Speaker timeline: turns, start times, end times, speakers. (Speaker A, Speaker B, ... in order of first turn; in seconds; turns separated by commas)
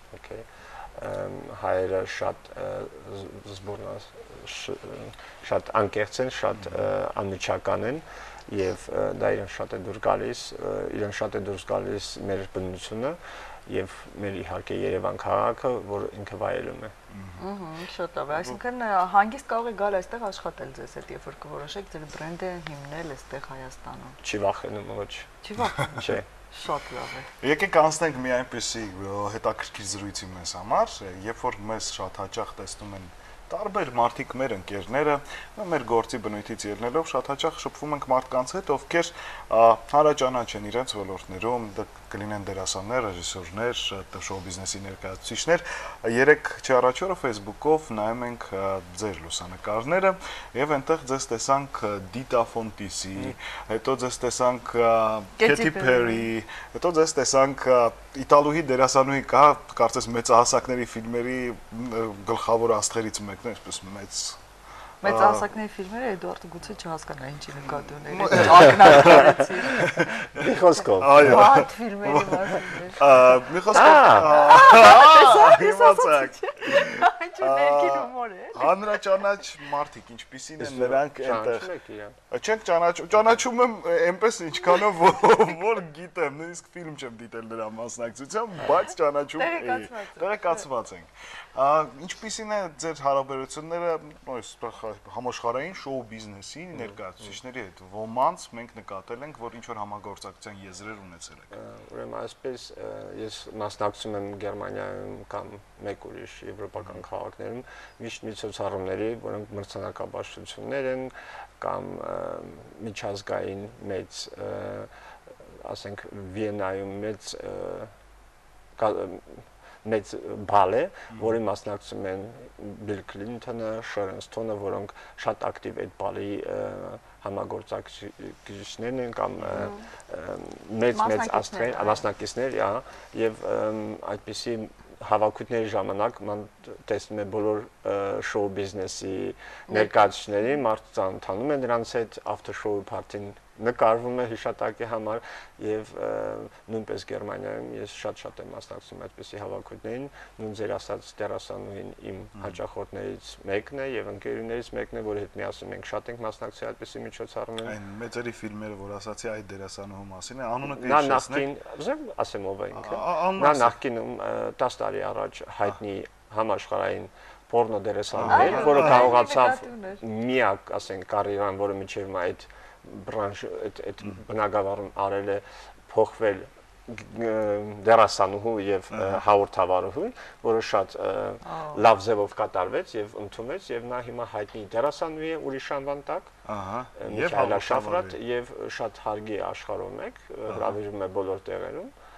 Speaker A: 0.1-16.9, Speaker B: 17.1-17.4, Speaker C: 17.4-24.2, Speaker A: 24.2-25.3, Speaker C: 25.4-27.3, Speaker A: 25.9-26.2, Speaker B: 27.4-64.4, Speaker C: 55.4-56.3, Speaker B: 65.0-65.5, Speaker C: 65.0-70.1, Speaker B: 68.0-70.4, Speaker A: 70.1-71.2, Speaker B: 71.0-81.7, Speaker C: 71.1-73.3, Speaker A: 73.7-74.5, Speaker C: 74.2-79.0, Speaker A: 80.6-82.2, Speaker B: 82.3-101.5, Speaker C: 89.3-90.7, Speaker A: 96.8-97.3, Speaker A: 101.5-114.9, Speaker A: 115.5-117.9, Speaker A: 118.8-157.8, Speaker B: 121.1-121.4, Speaker B: 129.4-129.7, Speaker C: 129.5-129.8, Speaker C: 130.9-132.1, Speaker C: 139.7-140.1, Speaker B: 157.6-161.5, Speaker A: 160.7-186.3, Speaker B: 162.7-163.8, Speaker B: 168.1-169.1, Speaker C: 168.2-170.0, Speaker B: 178.9-179.2, Speaker C: 181.4-181.8, Speaker B: 186.4-188.2, Speaker A: 186.9-191.9, Speaker B: 190.5-190.7